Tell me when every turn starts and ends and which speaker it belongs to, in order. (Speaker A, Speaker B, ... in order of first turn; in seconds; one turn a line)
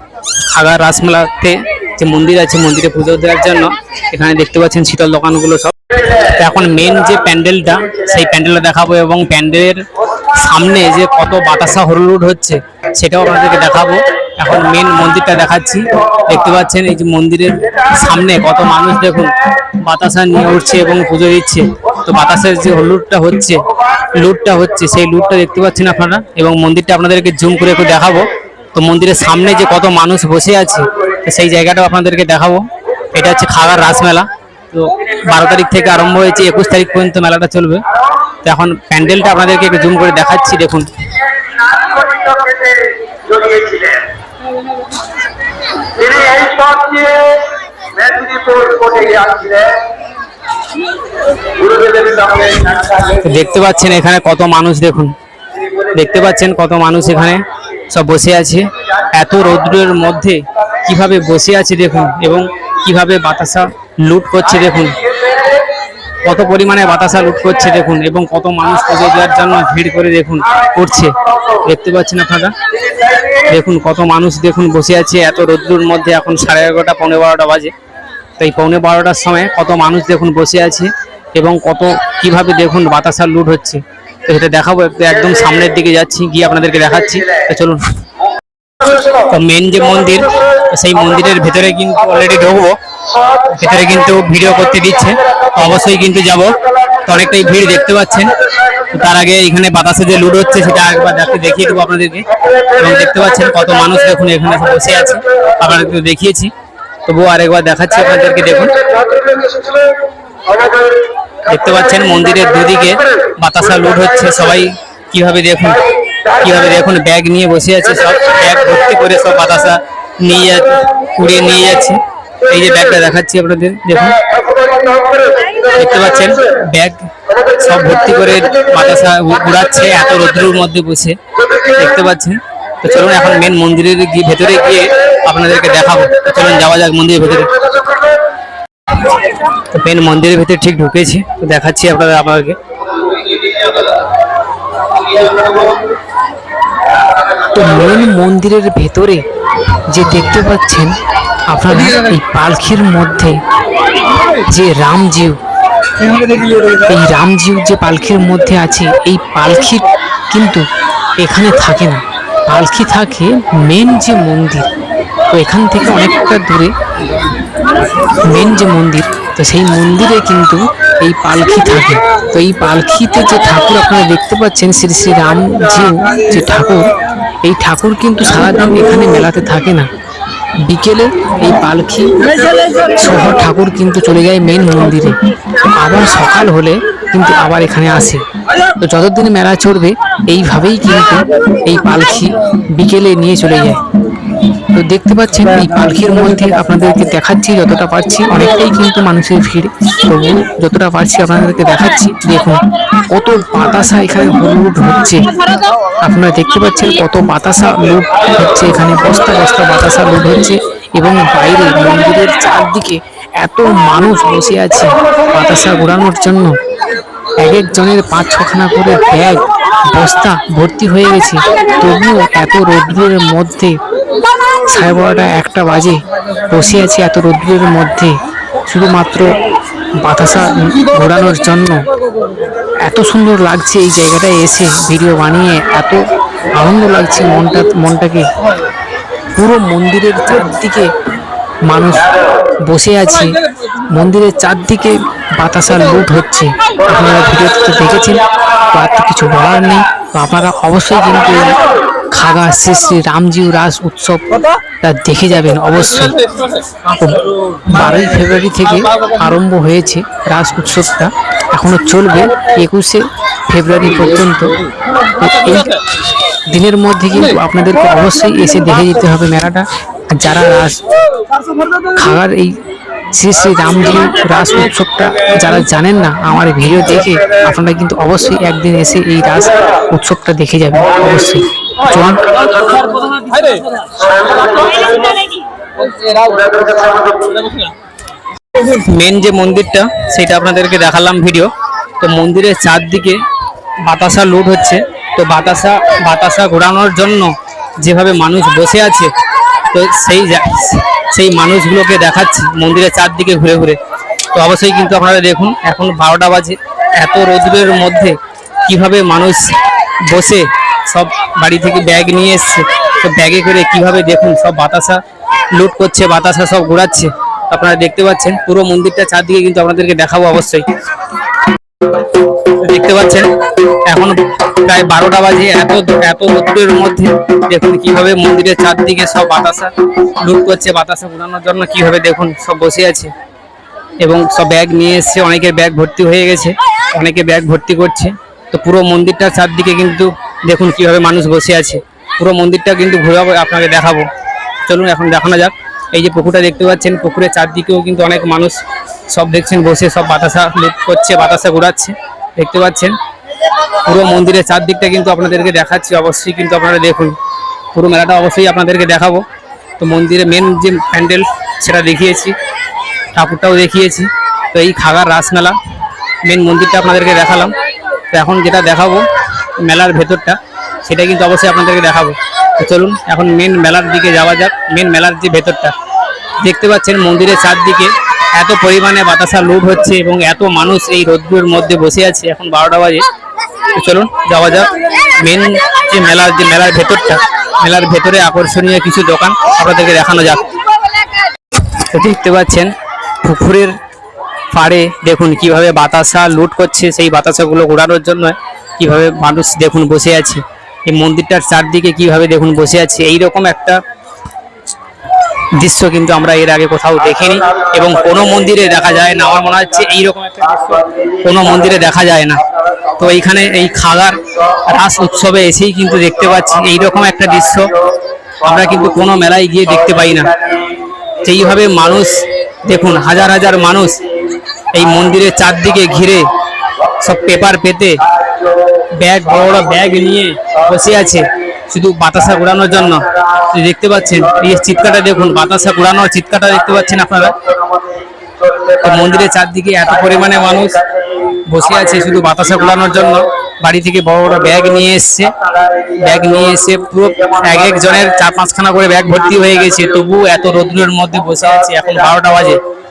Speaker A: 0.5-37.8
Speaker A: 38.4-40.9
Speaker B: 41.7-44.1
Speaker B: 45.9-49.9
Speaker B: 51.5-53.0
Speaker A: 52.9-55.1
Speaker A: 55.9-65.1
Speaker A: 66.2-72.5
Speaker A: 73.3-77.7
Speaker A: 78.4-87.8
Speaker A: 88.8-92.8
Speaker A: 93.4-106.5
Speaker A: 107.1-108.9
Speaker B: 109.0-109.9
Speaker B: 110.6-110.8
Speaker A: 111.4-115.8
Speaker A: 116.3-124.2
Speaker B: 124.8-125.2
Speaker A: 125.7-137.6
Speaker A: 139.7-142.6
Speaker C: 147.4-149.2
Speaker C: 149.9-151.0
Speaker C: 151.5-153.4
Speaker C: 154.3-155.4
Speaker C: 156.6-160.7
Speaker C: 161.2-164.7
Speaker C: 165.3-166.7
Speaker C: 168.1-179.9
Speaker C: 180.6-188.2
Speaker C: 188.8-193.8
Speaker C: 194.7-205.3
Speaker C: 206.1-216.6
Speaker C: 217.4-223.8
Speaker C: 224.6-226.0
Speaker C: 226.5-228.2
Speaker C: 228.7-229.4
Speaker C: 230.0-231.9
Speaker C: 232.8-236.1
Speaker C: 236.6-238.3
Speaker C: 239.3-240.9
Speaker C: 241.7-242.1
Speaker C: 242.6-243.4
Speaker C: 243.9-256.3
Speaker C: 257.0-265.8
Speaker C: 266.5-270.8
Speaker C: 271.9-282.5
Speaker A: 283.1-283.5
Speaker B: 284.1-285.2
Speaker B: 286.2-287.4
Speaker A: 288.6-293.2
Speaker A: 293.8-299.1
Speaker A: 299.7-303.8
Speaker A: 304.3-309.5
Speaker A: 310.1-315.0
Speaker A: 315.5-320.6
Speaker A: 322.5-323.3
Speaker A: 323.9-333.1
Speaker A: 334.0-344.1
Speaker A: 344.7-348.6
Speaker A: 349.1-353.0
Speaker A: 353.8-357.1
Speaker A: 357.7-359.2
Speaker A: 359.8-362.4
Speaker A: 363.1-365.6
Speaker A: 366.2-367.5
Speaker A: 368.1-369.0
Speaker A: 369.6-375.7
Speaker A: 376.4-383.1
Speaker A: 383.7-390.4
Speaker A: 391.9-392.7
Speaker A: 393.2-393.8
Speaker A: 394.5-403.8
Speaker A: 405.6-412.4
Speaker B: 410.9-411.2
Speaker A: 413.0-417.7
Speaker A: 418.4-420.3
Speaker B: 420.4-420.9
Speaker A: 421.2-424.0
Speaker A: 424.7-426.3
Speaker A: 427.0-428.0
Speaker B: 428.1-428.8
Speaker A: 429.0-437.4
Speaker B: 437.4-438.8
Speaker A: 438.8-440.8
Speaker A: 441.4-445.3
Speaker B: 445.5-445.9
Speaker A: 445.9-452.6